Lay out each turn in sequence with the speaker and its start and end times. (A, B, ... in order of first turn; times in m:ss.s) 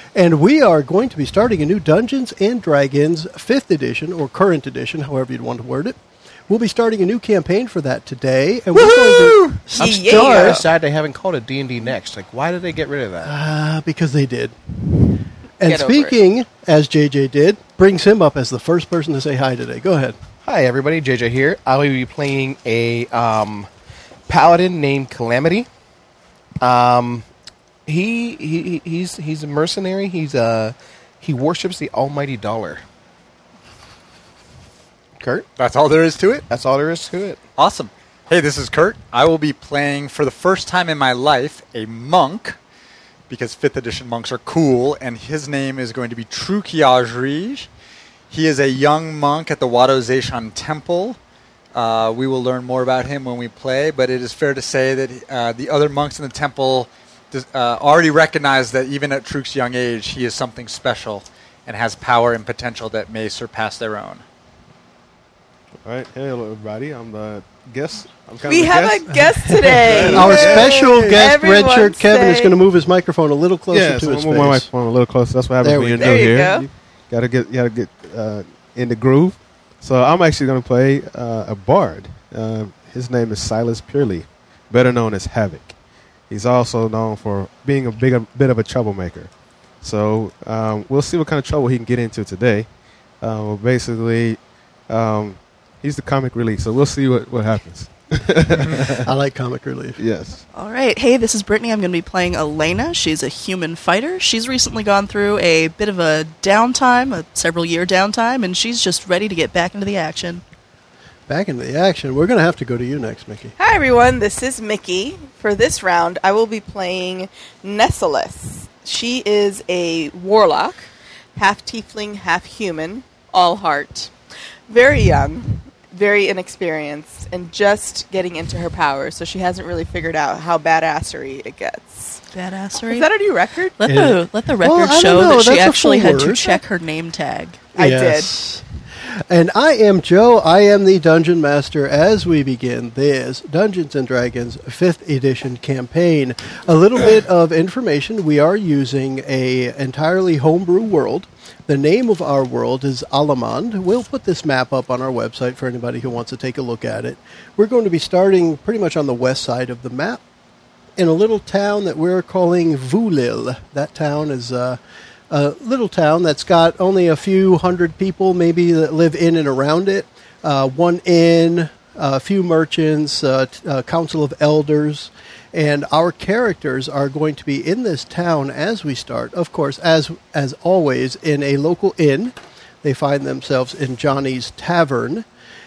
0:00.1-0:06.0 A
0:06.5-0:10.6 A
0:08.8-0:10.6 B
0:09.8-0:13.3 C
0:13.2-0:14.9 A
0:15.6-0:20.2 A
0:15.6-0:16.1 B
0:20.4-0:23.7 C
0:24.3-0:25.7 C
0:26.6-0:27.2 C
0:27.8-0:32.8 C
0:35.2-0:35.4 C
0:35.6-0:36.4 D
0:36.5-0:37.4 C
0:37.6-0:42.6 D
0:43.3-0:47.7 D
0:48.3-0:51.2 D
0:51.7-1:04.2 D
1:05.8-1:11.2 E
1:08.4-1:12.6 B
1:09.2-1:14.7 A
1:13.7-1:25.7 E
1:15.6-1:16.3 A
1:16.0-1:16.6 B
1:26.3-1:32.7 E
1:33.2-1:34.4 E
1:34.9-1:39.1 E
1:38.8-1:40.0 A
1:40.0-1:40.4 E
1:40.5-1:50.4 F
1:51.3-1:53.5 A
1:53.6-2:04.1 B
2:04.7-2:12.2 B
2:12.3-2:13.1 F
2:12.8-2:13.8 B
2:13.8-2:17.6 F
2:13.8-2:16.6 A
2:17.7-2:18.3 B
2:17.8-2:18.6 A
2:19.3-2:40.2 A
2:41.0-2:44.8 A
2:45.3-3:05.2 A